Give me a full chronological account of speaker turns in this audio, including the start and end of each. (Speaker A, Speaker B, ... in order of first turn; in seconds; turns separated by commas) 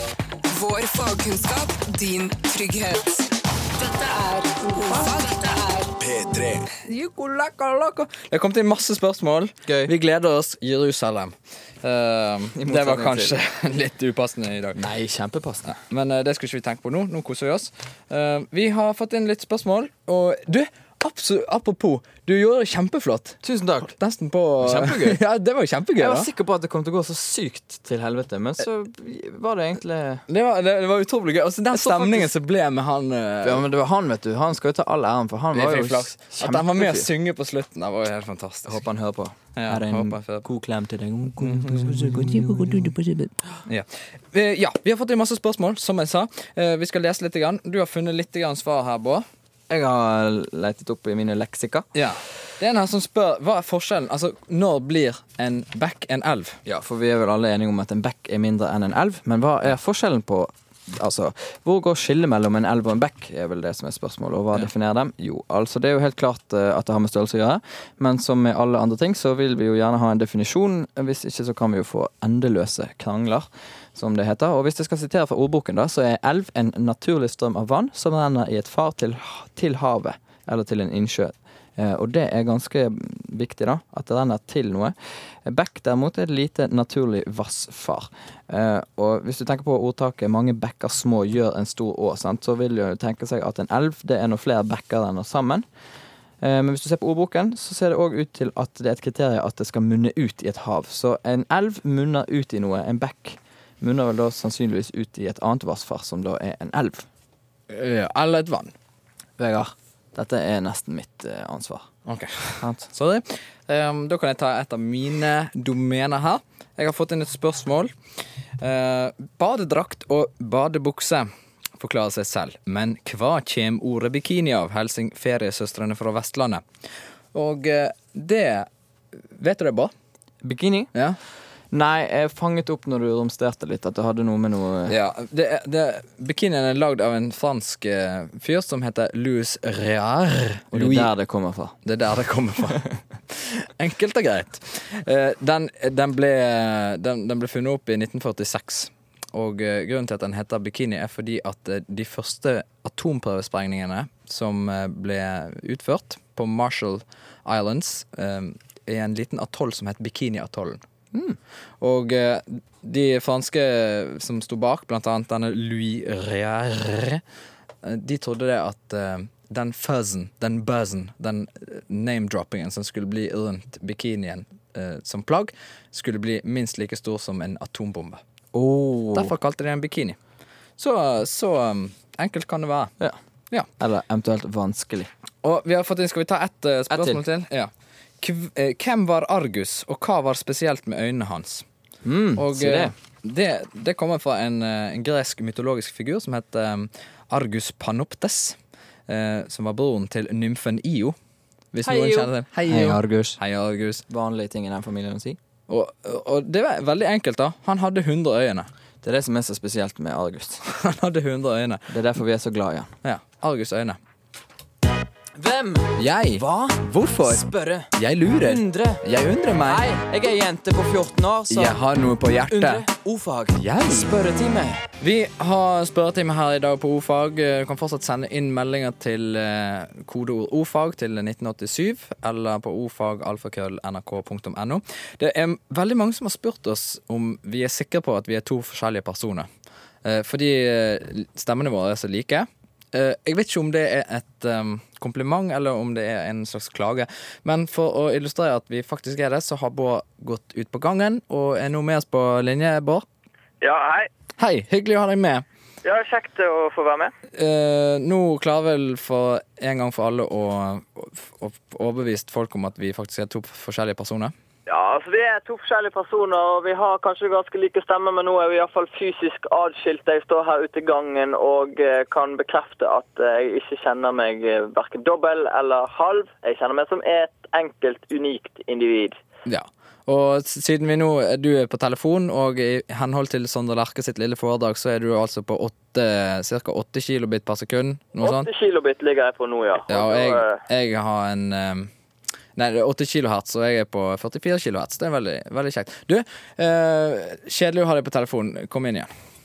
Speaker A: 0.5-6.5, Speaker B: 6.6-14.8, Speaker C: 9.7-9.9, Speaker C: 12.6-13.4, Speaker C: 14.8-15.8, Speaker B: 15.8-23.4, Speaker C: 23.4-24.0, Speaker B: 23.9-26.3, Speaker C: 24.6-25.2, Speaker C: 26.0-30.2, Speaker B: 30.3-33.7, Speaker C: 31.7-32.3, Speaker C: 33.4-37.1, Speaker B: 35.5-38.8, Speaker C: 38.7-43.4, Speaker B: 39.6-40.5, Speaker B: 41.4-42.4, Speaker B: 43.7-49.2, Speaker C: 49.7-51.9, Speaker B: 52.0-56.6, Speaker C: 56.7-84.9, Speaker C: 85.5-95.7, Speaker C: 96.4-107.1, Speaker B: 107.7-108.7, Speaker C: 109.4-111.9, Speaker B: 112.1-117.9, Speaker C: 112.6-112.9, Speaker B: 118.6-126.7, Speaker B: 127.3-128.7, Speaker B: 129.2-129.9, Speaker C: 130.4-130.9, Speaker C: 131.7-134.9, Speaker B: 134.9-141.1, Speaker C: 140.7-141.8, Speaker B: 141.8-160.8, Speaker B: 161.8-167.2, Speaker B: 167.8-178.2, Speaker C: 178.5-179.3, Speaker B: 179.1-180.2, Speaker B: 180.8-182.9, Speaker C: 183.8-185.1, Speaker B: 185.4-191.7, Speaker C: 186.9-187.2, Speaker C: 192.1-192.9, Speaker B: 192.4-198.6, Speaker B: 199.1-201.2, Speaker B: 201.7-204.1, Speaker C: 201.8-203.4, Speaker C: 204.1-205.4, Speaker B: 205.7-208.7, Speaker C: 209.0-210.6, Speaker B: 210.7-211.9, Speaker C: 211.9-212.9, Speaker B: 213.0-214.0, Speaker C: 215.4-219.0, Speaker B: 216.0-217.4, Speaker B: 217.9-219.8, Speaker C: 219.7-221.8, Speaker B: 221.5-222.8, Speaker C: 222.5-224.9, Speaker B: 223.6-224.1, Speaker B: 225.0-239.5, Speaker B: 240.0-253.1, Speaker D: 253.6-254.1, Speaker B: 254.4-255.4, Speaker D: 255.8-257.1, Speaker B: 257.4-264.3, Speaker D: 264.7-279.2, Speaker B: 279.5-288.5, Speaker D: 288.2-290.6, Speaker B: 289.9-291.9, Speaker B: 292.6-299.1